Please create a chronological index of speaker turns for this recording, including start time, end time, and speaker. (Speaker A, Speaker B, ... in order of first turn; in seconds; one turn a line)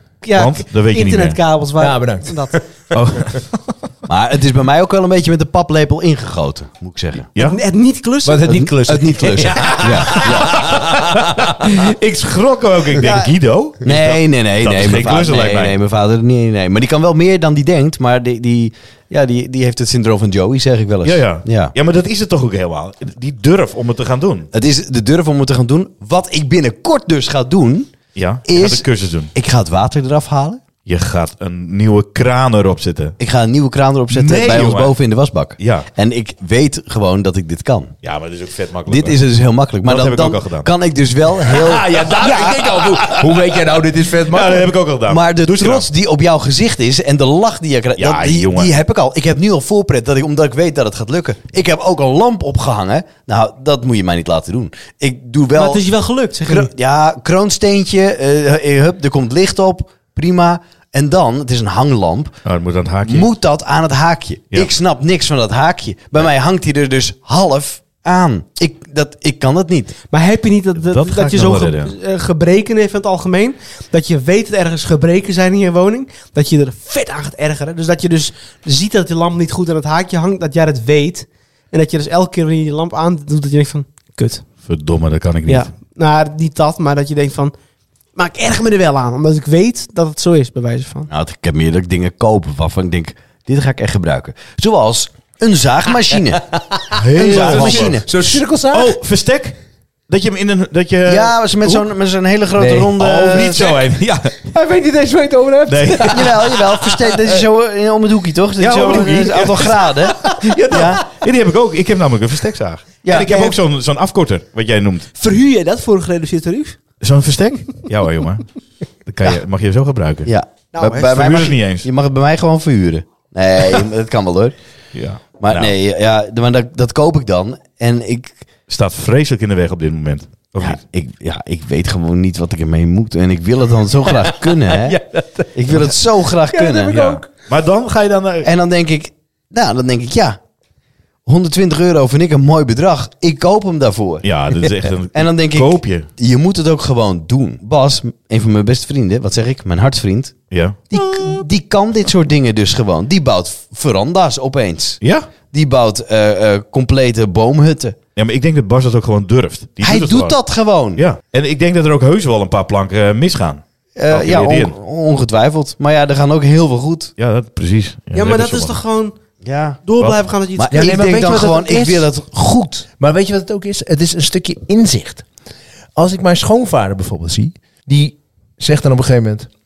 Speaker A: 0.2-2.6
Speaker B: 0.3-1.4
Speaker C: 1.8-2.6
Speaker B: 2.9-3.5
Speaker D: 4.1-7.3
Speaker B: 7.3-7.6
Speaker A: 7.4-8.8
Speaker C: 8.2-11.7
Speaker D: 8.6-10.6
Speaker B: 11.0-15.8
Speaker A: 13.0-13.3
Speaker D: 13.8-21.7
Speaker B: 21.0-24.5
Speaker D: 24.5-27.9
Speaker B: 28.1-29.3
Speaker D: 28.4-30.6
Speaker B: 30.9-33.1
Speaker D: 33.2-37.9
Speaker B: 34.1-35.0
Speaker B: 35.6-35.9
Speaker B: 38.0-39.2
Speaker D: 38.9-42.2
Speaker B: 39.8-40.7
Speaker C: 41.5-44.7
Speaker B: 42.5-43.2
Speaker B: 44.3-45.9
Speaker D: 45.1-55.8
Speaker B: 48.0-48.7
Speaker A: 55.5-56.7
Speaker D: 56.4-62.3
Speaker B: 62.4-63.3
Speaker D: 63.0-69.9
Speaker A: 70.1-84.4
Speaker B: 70.8-71.9
Speaker B: 84.6-85.7
Speaker A: 85.5-87.5
Speaker A: 88.2-91.1
Speaker D: 91.1-96.4
Speaker C: 96.5-99.0
Speaker B: 96.9-98.0
Speaker D: 97.2-98.1
Speaker B: 98.7-99.6
Speaker B: 100.1-101.8
Speaker D: 101.1-103.6
Speaker C: 102.6-107.4
Speaker B: 103.0-104.5
Speaker B: 105.7-106.5
Speaker D: 106.1-111.0
Speaker B: 108.6-115.1
Speaker A: 113.1-113.6
Speaker A: 115.2-116.8
Speaker B: 117.0-118.5
Speaker B: 119.1-120.3
Speaker D: 120.2-124.5
Speaker A: 120.7-121.4
Speaker B: 120.9-121.9
Speaker B: 124.9-125.7
Speaker D: 125.4-128.4
Speaker B: 128.7-130.8
Speaker D: 130.6-135.0
Speaker C: 134.1-135.8
Speaker D: 135.5-137.0
Speaker C: 136.4-137.3
Speaker B: 136.9-138.5
Speaker D: 138.4-140.4
Speaker D: 141.2-144.3
Speaker B: 144.2-146.1
Speaker D: 145.1-150.3
Speaker B: 150.5-150.8
Speaker D: 150.9-155.0
Speaker B: 155.0-155.3
Speaker D: 155.5-158.0
Speaker B: 158.2-160.4
Speaker D: 159.8-161.0
Speaker B: 161.0-164.7
Speaker D: 164.0-167.1
Speaker B: 167.2-168.8
Speaker A: 168.1-169.1
Speaker D: 169.4-169.8
Speaker A: 169.8-171.0
Speaker D: 170.6-172.9
Speaker C: 170.7-172.1
Speaker C: 172.9-175.2
Speaker C: 175.9-179.5